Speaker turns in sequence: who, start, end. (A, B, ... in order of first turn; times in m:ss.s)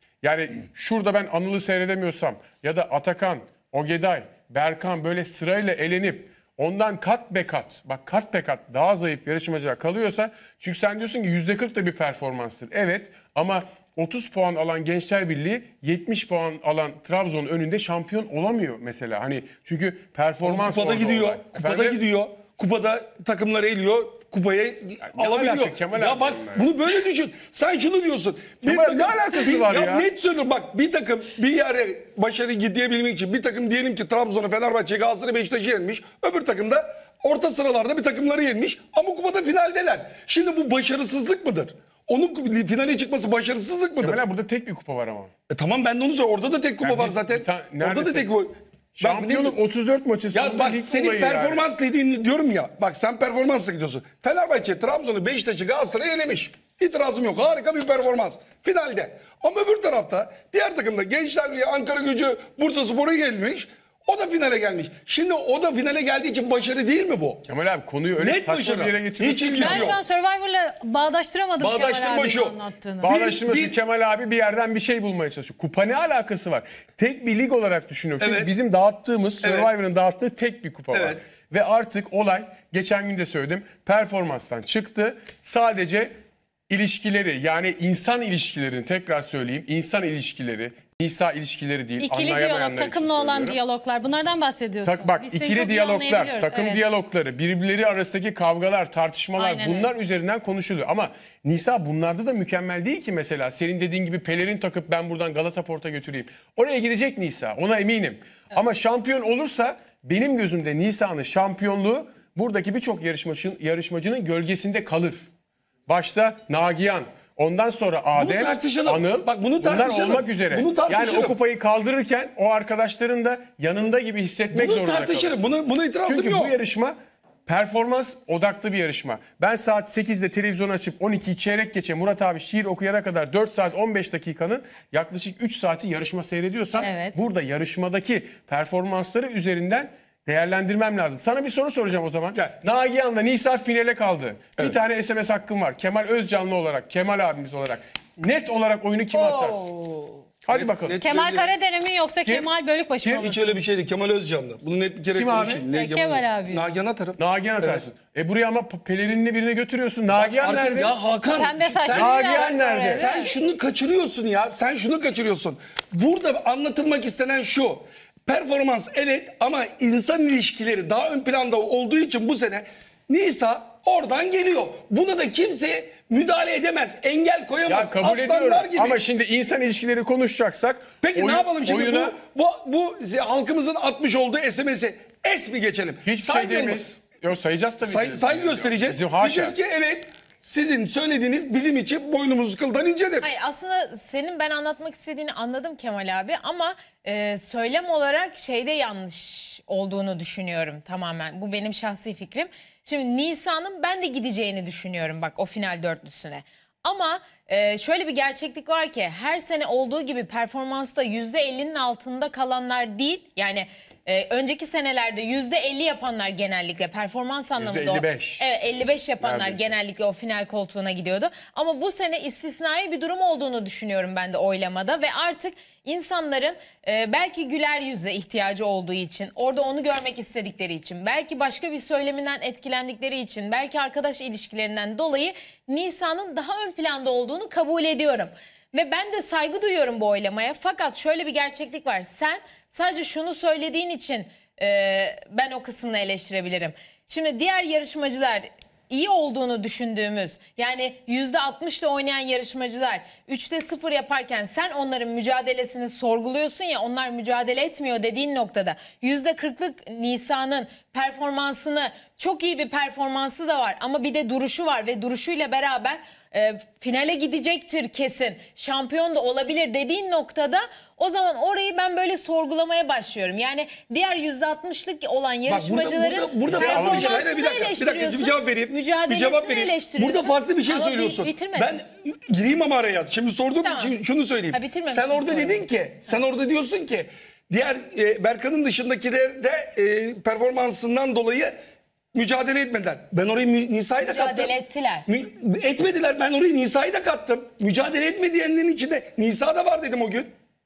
0:00.2-0:22.0 A
0:20.4-0:44.2 B
0:25.0-0:26.7 A
0:28.6-0:30.1 A
0:44.0-0:45.3 A
0:45.5-0:49.6 B
0:46.8-0:48.3 A
0:49.0-0:51.6 A
0:50.3-1:07.4 B
1:07.4-1:10.0 A
1:08.2-1:10.0 B
1:09.6-1:13.1 C
1:11.6-1:13.8 B
1:13.0-1:26.1 A
1:18.2-1:18.5 B
1:19.4-1:19.7 B
1:20.9-1:21.2 B
1:26.7-1:33.6 A
1:32.0-1:36.8 C
1:34.8-1:55.3 A
1:39.4-1:39.9 C
1:55.9-2:07.0 A
1:58.2-2:01.4 B
2:04.5-2:06.5 B
2:07.5-2:29.7 A
2:16.8-2:17.2 C
2:29.1-2:30.3 D
2:30.4-2:31.0 A
2:30.5-2:31.5 B
2:31.0-2:33.5 C
2:33.0-2:33.3 A
2:33.2-2:37.8 B
2:35.2-2:35.6 A
2:35.7-2:36.6 C
2:37.2-2:40.9 A
2:40.1-2:59.0 B
2:41.3-2:43.3 C
2:41.9-2:43.1 A
2:57.7-3:02.2 A
3:01.0-3:07.0 B
3:06.0-3:09.6 A
3:07.8-3:13.3 B
3:13.2-4:41.7 D
3:37.6-3:38.4 A
3:39.2-3:39.7 A
4:35.5-4:51.6 B
4:36.5-4:37.2 A
4:43.6-4:44.0 D
4:44.5-4:45.6 D
4:52.1-4:54.5 B
4:54.0-4:55.1 D
4:55.1-5:00.3 B